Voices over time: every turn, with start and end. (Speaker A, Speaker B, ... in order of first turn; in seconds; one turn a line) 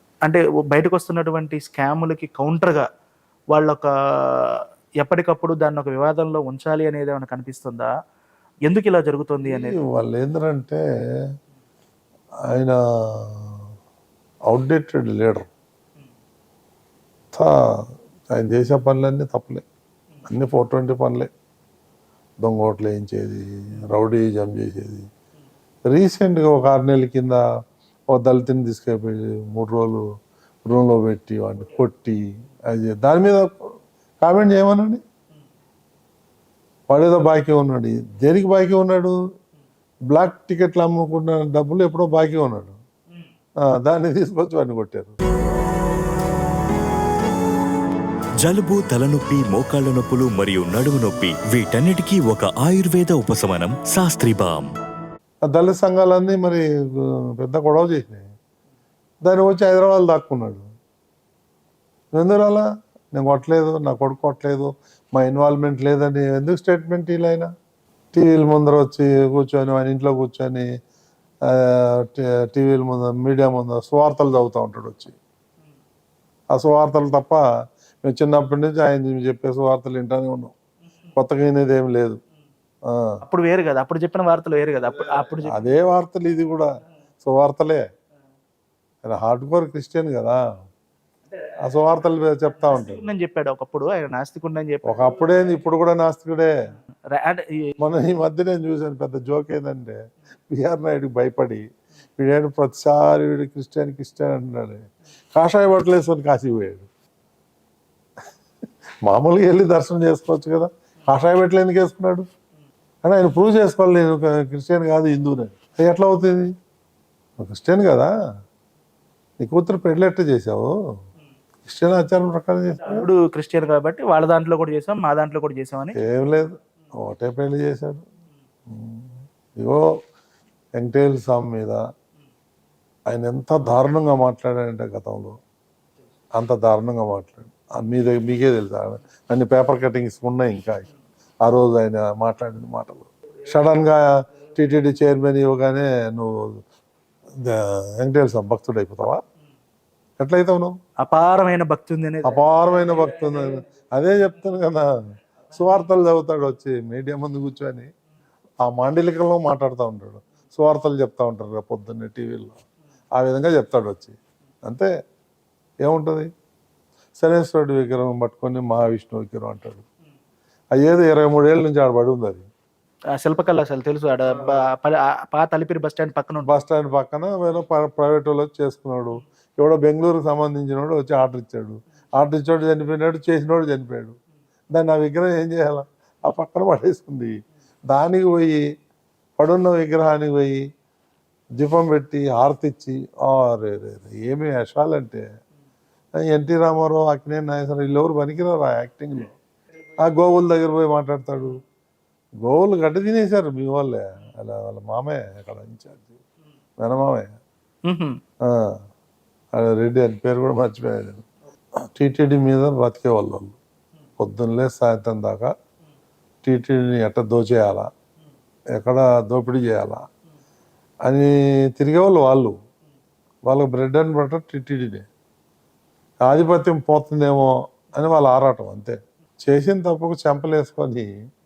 Speaker A: 0.2-2.9
Speaker A: 3.5-7.9
Speaker A: 8.7-9.8
Speaker B: 9.4-10.8
Speaker B: 12.5-13.6
Speaker B: 14.5-15.5
Speaker B: 18.3-19.6
Speaker B: 20.2-21.3
Speaker B: 22.4-25.1
Speaker B: 25.8-27.4
Speaker B: 28.1-30.0
Speaker B: 30.6-35.0
Speaker B: 36.9-39.2
Speaker B: 40.1-42.8
Speaker B: 43.7-45.1
Speaker C: 48.4-54.7
Speaker B: 55.5-58.3
Speaker B: 59.2-60.7
Speaker B: 62.1-67.5
Speaker B: 68.1-70.7
Speaker B: 71.5-75.2
Speaker B: 76.5-77.4
Speaker B: 78.0-80.5
Speaker B: 81.1-82.2
Speaker B: 82.9-83.2
Speaker A: 83.2-85.7
Speaker B: 85.4-86.7
Speaker B: 87.2-87.8
Speaker B: 89.0-90.4
Speaker B: 91.6-93.0
Speaker A: 92.6-95.2
Speaker B: 94.8-96.5
Speaker A: 97.1-97.7
Speaker B: 97.8-100.0
Speaker B: 100.5-101.6
Speaker B: 102.2-104.8
Speaker B: 105.3-106.9
Speaker B: 109.0-112.2
Speaker B: 113.0-116.5
Speaker B: 117.4-118.1
Speaker B: 119.4-120.7
Speaker B: 121.7-123.1
Speaker A: 122.8-126.0
Speaker B: 125.9-128.0
Speaker B: 128.7-129.9
Speaker B: 130.8-131.8
Speaker B: 133.1-135.4
Speaker B: 136.4-140.9
Speaker B: 141.4-146.6
Speaker B: 147.4-149.2
Speaker B: 150.2-150.8
Speaker A: 151.0-152.4
Speaker B: 152.2-154.9
Speaker B: 155.5-157.9
Speaker B: 158.6-162.6
Speaker B: 163.2-164.9
Speaker B: 165.8-166.3
Speaker B: 167.2-169.8
Speaker B: 170.8-172.5
Speaker A: 173.1-176.6
Speaker B: 176.4-184.2
Speaker B: 184.7-187.3
Speaker B: 187.9-188.6
Speaker B: 189.4-190.6
Speaker B: 191.6-195.2
Speaker B: 196.3-199.3
Speaker B: 200.0-201.6
Speaker B: 202.4-206.2
Speaker B: 206.8-207.3
Speaker A: 207.8-208.2
Speaker B: 208.4-208.8
Speaker B: 209.5-211.2
Speaker B: 211.9-213.6
Speaker B: 214.2-215.5
Speaker B: 216.4-217.9
Speaker B: 218.8-220.0
Speaker B: 221.1-222.6
Speaker B: 223.4-225.1
Speaker B: 226.2-231.1